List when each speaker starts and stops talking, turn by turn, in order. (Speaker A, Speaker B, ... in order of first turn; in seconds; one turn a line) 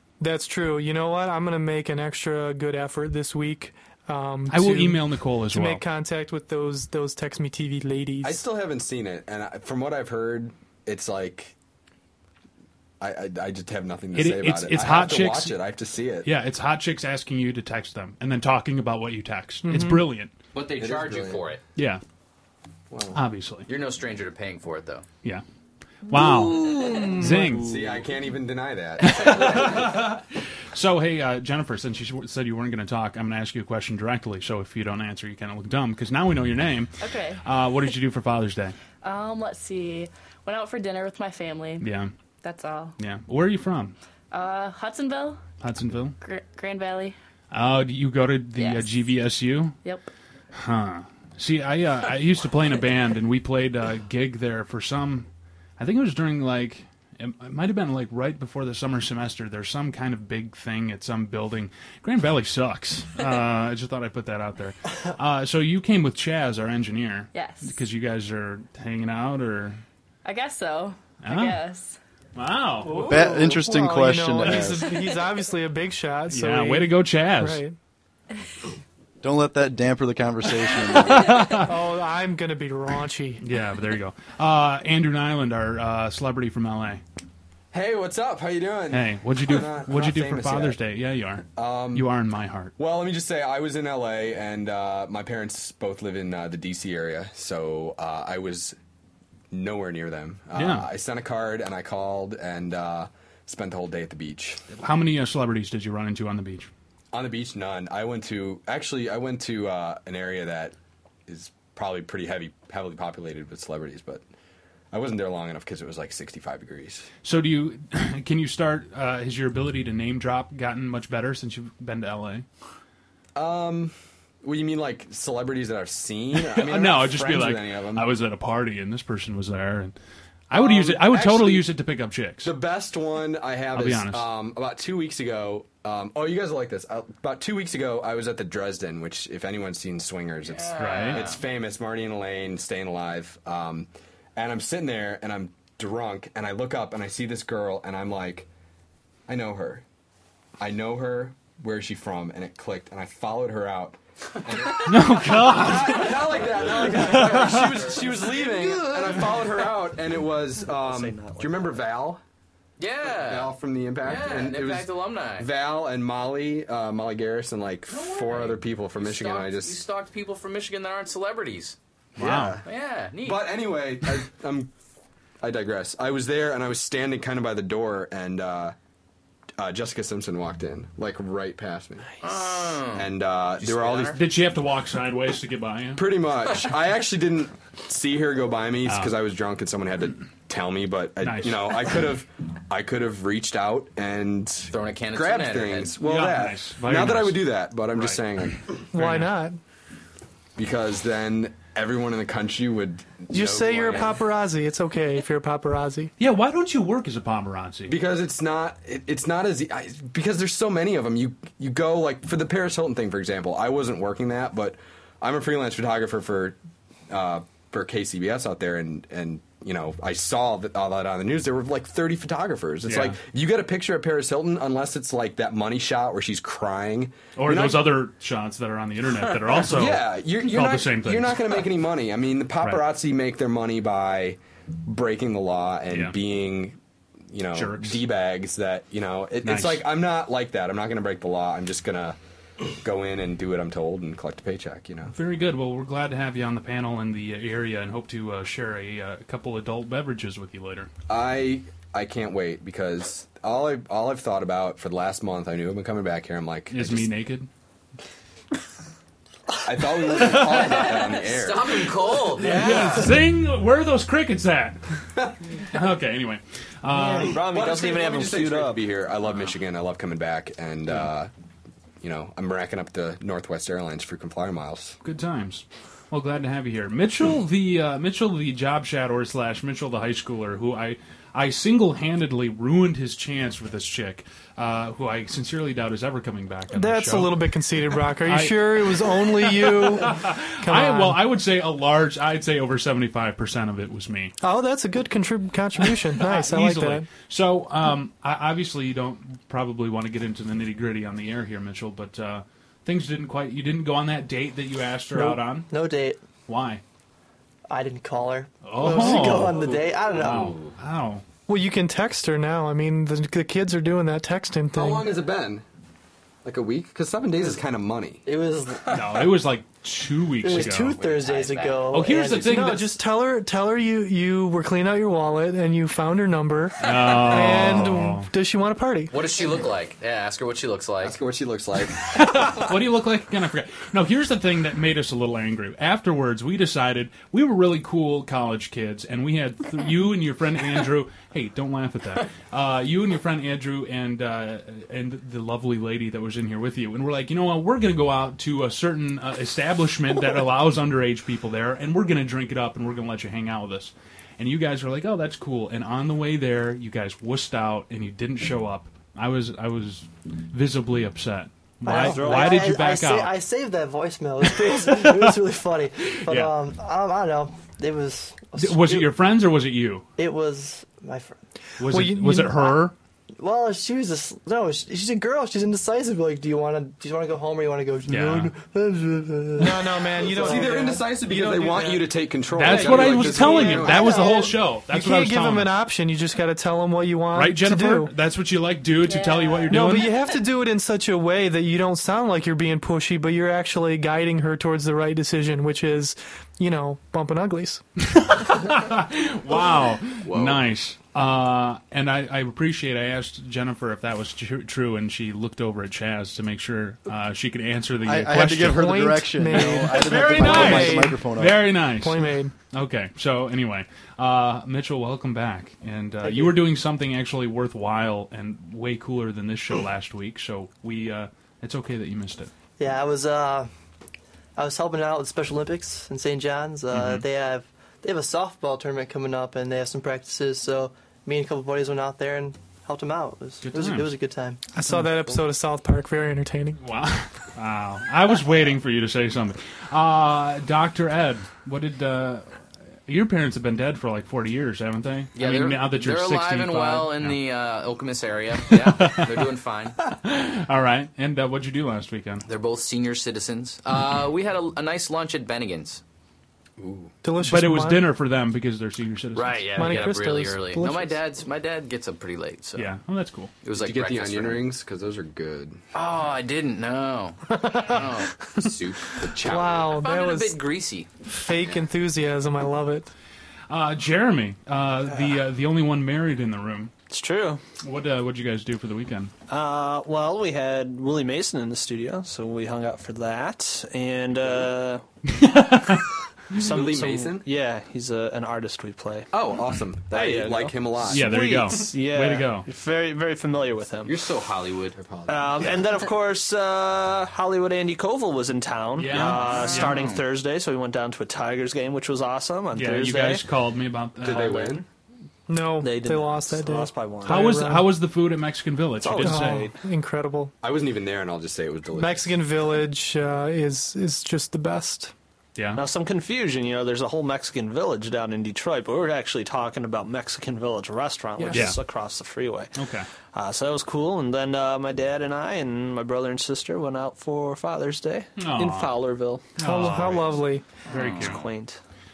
Speaker A: 0.2-8.4
Speaker B: 4.5-5.8
Speaker C: 8.2-11.6
Speaker C: 13.0-16.3
Speaker B: 14.1-15.6
Speaker B: 16.2-20.3
Speaker A: 19.6-20.1
Speaker D: 20.5-21.6
Speaker C: 20.8-21.4
Speaker B: 21.8-22.0
Speaker C: 22.9-23.2
Speaker B: 23.1-23.7
Speaker D: 23.7-25.1
Speaker B: 26.1-27.8
Speaker C: 27.5-30.0
Speaker B: 29.0-38.8
Speaker E: 37.0-37.4
Speaker E: 39.0-41.9
Speaker B: 41.8-42.1
Speaker E: 42.4-43.0
Speaker B: 43.0-44.0
Speaker E: 44.3-45.4
Speaker B: 45.6-46.2
Speaker E: 46.2-47.2
Speaker B: 47.5-49.8
Speaker E: 48.6-48.9
Speaker E: 49.8-50.1
Speaker B: 50.5-55.3
Speaker B: 55.8-69.8
Speaker E: 67.3-67.8
Speaker E: 70.2-72.0
Speaker B: 71.2-71.6
Speaker B: 72.4-73.0
Speaker A: 72.8-77.8
Speaker F: 72.9-75.0
Speaker B: 76.3-77.6
Speaker F: 79.2-81.6
Speaker B: 81.0-81.7
Speaker A: 81.5-83.4
Speaker B: 83.4-87.0
Speaker C: 87.7-90.8
Speaker B: 88.9-92.7
Speaker C: 91.5-92.1
Speaker C: 92.8-98.8
Speaker C: 99.5-104.6
Speaker B: 100.5-100.9
Speaker B: 104.8-106.7
Speaker C: 107.1-110.8
Speaker C: 111.3-114.2
Speaker C: 114.9-117.1
Speaker B: 117.2-122.5
Speaker C: 123.3-128.1
Speaker B: 126.3-130.0
Speaker B: 130.5-132.5
Speaker C: 130.5-131.7
Speaker C: 132.4-148.5
Speaker B: 133.8-134.3
Speaker D: 140.4-141.4
Speaker B: 140.8-141.2
Speaker C: 149.3-149.8
Speaker C: 150.6-162.2
Speaker D: 154.5-159.6
Speaker B: 154.9-156.2
Speaker G: 160.7-161.8
Speaker D: 162.8-165.5
Speaker C: 163.0-169.8
Speaker D: 167.9-171.8
Speaker B: 172.2-172.6
Speaker C: 172.2-172.7
Speaker D: 172.7-173.6
Speaker C: 173.2-174.7
Speaker C: 175.4-178.8
Speaker C: 179.6-184.2
Speaker D: 182.2-184.2
Speaker B: 184.1-186.1
Speaker C: 186.0-198.7
Speaker B: 188.9-189.1
Speaker B: 191.2-191.6
Speaker D: 194.7-195.9
Speaker B: 196.0-197.4
Speaker A: 198.9-199.6
Speaker B: 198.9-199.3
Speaker C: 200.6-204.1
Speaker A: 203.3-206.1
Speaker D: 203.3-204.2
Speaker B: 206.2-208.0
Speaker C: 207.9-216.6
Speaker C: 217.1-227.9
Speaker B: 222.8-223.2
Speaker B: 227.4-231.5
Speaker C: 229.5-236.8
Speaker B: 235.9-236.2
Speaker C: 237.3-242.2
Speaker B: 237.5-238.0
Speaker B: 239.4-239.9
Speaker C: 242.7-245.1
Speaker B: 245.1-250.9
Speaker C: 251.1-257.1
Speaker B: 256.7-257.5
Speaker C: 259.6-263.1
Speaker D: 260.3-263.0
Speaker B: 262.4-265.1
Speaker B: 265.6-267.4
Speaker H: 266.9-267.5
Speaker C: 267.3-271.3
Speaker D: 267.4-268.8
Speaker C: 272.0-275.0
Speaker B: 275.0-287.4
Speaker A: 286.7-291.2
Speaker B: 288.2-294.3
Speaker A: 294.4-297.1
Speaker B: 296.2-305.7
Speaker H: 305.1-306.2
Speaker B: 306.5-306.8
Speaker H: 307.7-310.6
Speaker B: 308.6-311.2
Speaker A: 308.8-309.4
Speaker A: 311.5-315.1
Speaker C: 314.7-315.6
Speaker C: 316.4-318.2
Speaker H: 318.3-319.3
Speaker B: 318.9-320.9
Speaker H: 320.4-322.8
Speaker D: 320.5-321.9
Speaker B: 321.9-323.0
Speaker A: 322.3-329.1
Speaker B: 326.8-328.3
Speaker D: 329.1-331.2
Speaker C: 331.0-332.4
Speaker B: 332.1-363.4
Speaker H: 361.8-369.1
Speaker G: 362.0-362.8
Speaker B: 364.8-365.3
Speaker B: 366.2-366.5
Speaker B: 368.6-370.1
Speaker H: 370.2-371.4
Speaker B: 371.8-372.9
Speaker A: 371.9-372.8
Speaker H: 373.4-381.9
Speaker B: 378.1-378.5
Speaker A: 379.6-382.0
Speaker C: 380.3-384.3
Speaker B: 382.6-385.7
Speaker A: 382.6-388.1
Speaker H: 383.2-384.6
Speaker B: 387.3-390.1
Speaker E: 389.1-389.8
Speaker A: 389.7-397.8
Speaker B: 398.0-408.9
Speaker D: 400.3-400.6
Speaker F: 408.1-411.8
Speaker A: 408.5-411.2
Speaker B: 409.6-422.5
Speaker A: 411.9-412.5
Speaker H: 416.2-416.6
Speaker H: 422.8-423.7
Speaker H: 424.6-434.6
Speaker B: 426.9-427.2
Speaker B: 433.6-434.1
Speaker A: 434.7-436.8
Speaker B: 436.8-442.5
Speaker B: 443.1-447.4
Speaker D: 445.4-450.0
Speaker B: 448.7-449.4
Speaker B: 450.1-452.4
Speaker D: 452.5-456.0
Speaker C: 456.8-457.1
Speaker A: 457.2-458.1
Speaker B: 457.4-460.0
Speaker D: 459.4-462.9
Speaker A: 459.8-461.2
Speaker B: 462.8-463.5
Speaker D: 463.6-464.7
Speaker C: 463.8-465.8
Speaker D: 465.9-471.1
Speaker A: 467.6-468.0
Speaker C: 469.3-469.8
Speaker A: 469.4-470.6
Speaker A: 471.4-473.1
Speaker B: 473.7-476.9
Speaker G: 477.1-477.6
Speaker B: 477.8-479.3
Speaker G: 479.5-485.0
Speaker B: 485.3-486.6
Speaker G: 486.5-489.3
Speaker C: 486.6-487.5
Speaker C: 489.3-491.3
Speaker G: 490.1-494.2
Speaker B: 491.1-492.7
Speaker D: 494.1-495.2
Speaker C: 495.0-495.8
Speaker G: 495.3-503.4
Speaker B: 499.0-500.0
Speaker D: 499.5-500.2
Speaker B: 502.7-504.7
Speaker C: 504.2-504.8
Speaker G: 504.4-504.8
Speaker A: 505.5-507.9
Speaker G: 505.8-507.5
Speaker B: 507.2-509.7
Speaker G: 509.0-509.7
Speaker A: 509.2-510.5
Speaker C: 510.6-512.4
Speaker A: 511.9-515.1
Speaker B: 515.6-515.8
Speaker G: 515.8-522.8
Speaker B: 521.5-521.8
Speaker B: 522.8-523.1
Speaker G: 523.3-529.6
Speaker B: 528.4-529.0
Speaker B: 529.6-530.4
Speaker A: 529.6-530.6
Speaker B: 530.9-531.4
Speaker D: 530.9-531.4
Speaker G: 531.0-531.8